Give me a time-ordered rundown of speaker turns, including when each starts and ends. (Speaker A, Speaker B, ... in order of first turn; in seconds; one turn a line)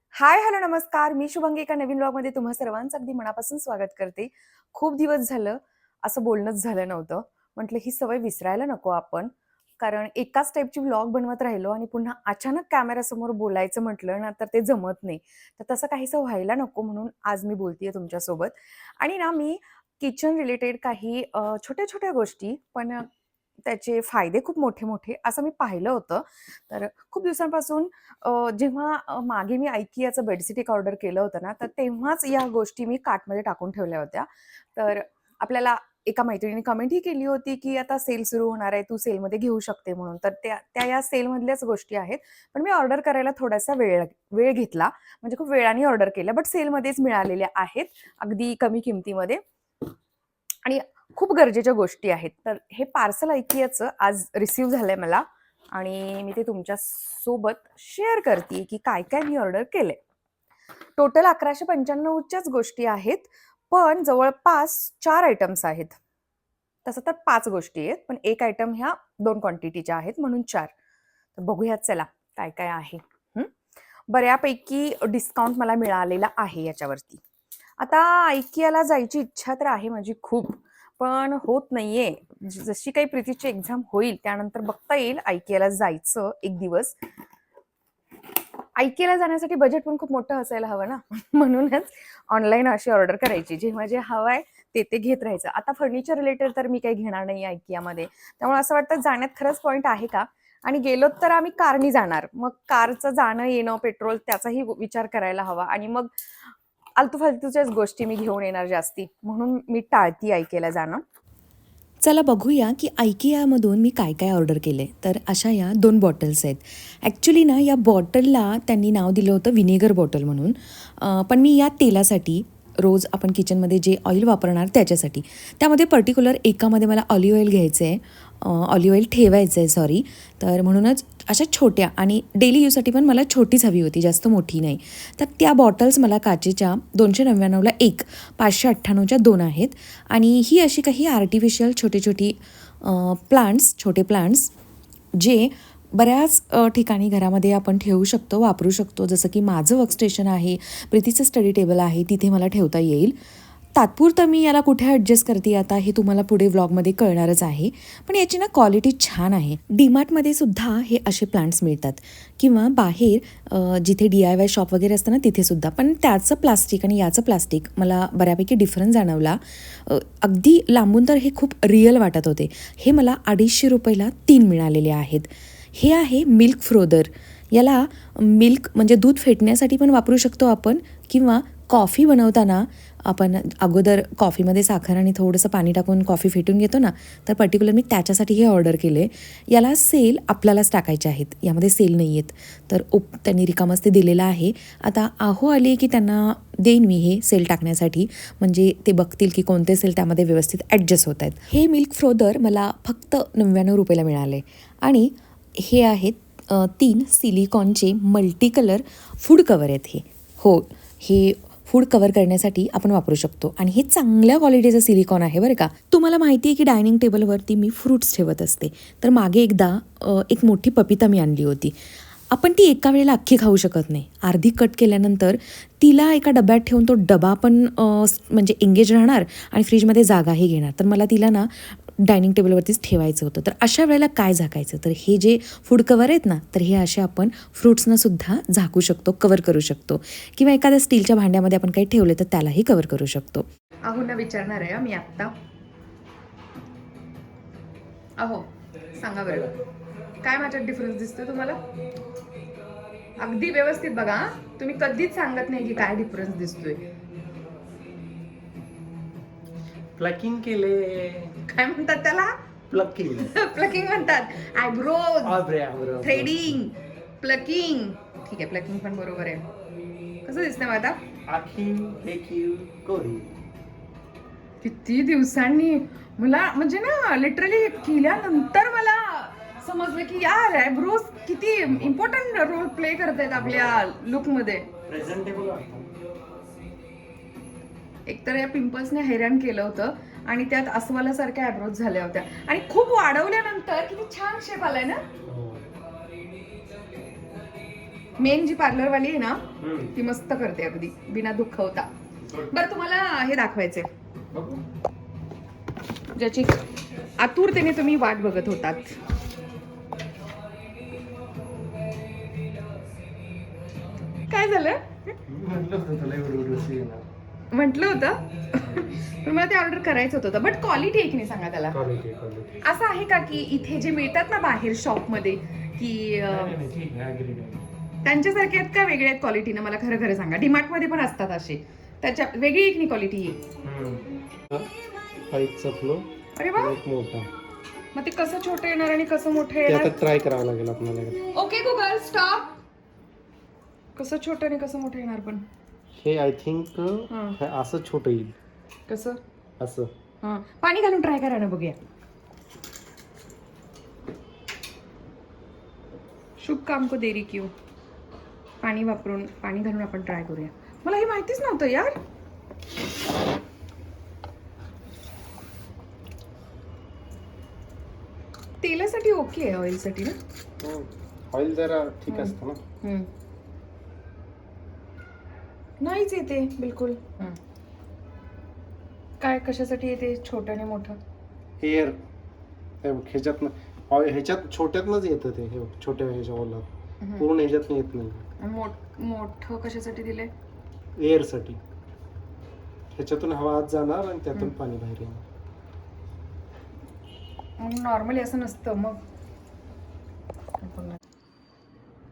Speaker A: 0.2-23.1
Speaker A: 23.6-49.4
Speaker A: 50.6-60.0
Speaker A: 61.0-66.0
Speaker A: 66.8-70.7
Speaker A: 71.4-73.5
Speaker A: 74.1-77.2
Speaker A: 77.8-87.0
Speaker A: 88.8-106.1
Speaker A: 107.0-111.0
Speaker B: 112.0-144.5
Speaker B: 145.1-153.2
Speaker B: 153.8-221.7
Speaker B: 222.3-243.5
Speaker A: 243.8-245.3
Speaker A: 248.2-249.5
Speaker A: 250.2-251.6
Speaker A: 253.2-256.8
Speaker C: 259.9-261.3
Speaker A: 261.4-262.3
Speaker C: 262.7-263.3
Speaker A: 263.1-265.4
Speaker C: 265.2-266.6
Speaker A: 266.0-269.4
Speaker A: 270.2-271.0
Speaker C: 271.2-273.3
Speaker A: 274.6-284.6
Speaker C: 283.4-283.8
Speaker C: 284.9-285.9
Speaker A: 288.1-295.0
Speaker C: 295.2-295.7
Speaker A: 298.2-303.9
Speaker C: 299.6-299.9
Speaker C: 304.3-304.6
Speaker A: 306.1-306.6
Speaker A: 307.2-309.0
Speaker A: 314.3-315.1
Speaker C: 315.3-317.1
Speaker A: 317.5-321.8
Speaker C: 321.7-322.6
Speaker A: 322.6-326.6
Speaker C: 326.3-327.6
Speaker A: 328.0-333.4
Speaker C: 333.6-337.3
Speaker A: 336.4-336.8
Speaker A: 337.9-339.9
Speaker C: 339.6-341.2
Speaker A: 341.3-342.5
Speaker A: 343.9-345.4
Speaker C: 345.9-348.4
Speaker A: 347.1-347.4
Speaker A: 348.9-349.2
Speaker C: 349.6-349.9
Speaker A: 350.2-351.8
Speaker A: 356.4-357.5
Speaker A: 358.6-361.9
Speaker A: 368.6-370.2
Speaker C: 370.6-372.6
Speaker A: 372.1-373.1
Speaker A: 375.8-377.4
Speaker A: 379.2-381.0
Speaker C: 381.6-382.0
Speaker C: 382.8-386.6
Speaker A: 387.0-387.3
Speaker C: 387.2-388.2
Speaker A: 388.4-390.3
Speaker C: 391.0-391.6
Speaker C: 392.9-395.2
Speaker A: 397.6-399.0
Speaker A: 400.6-401.0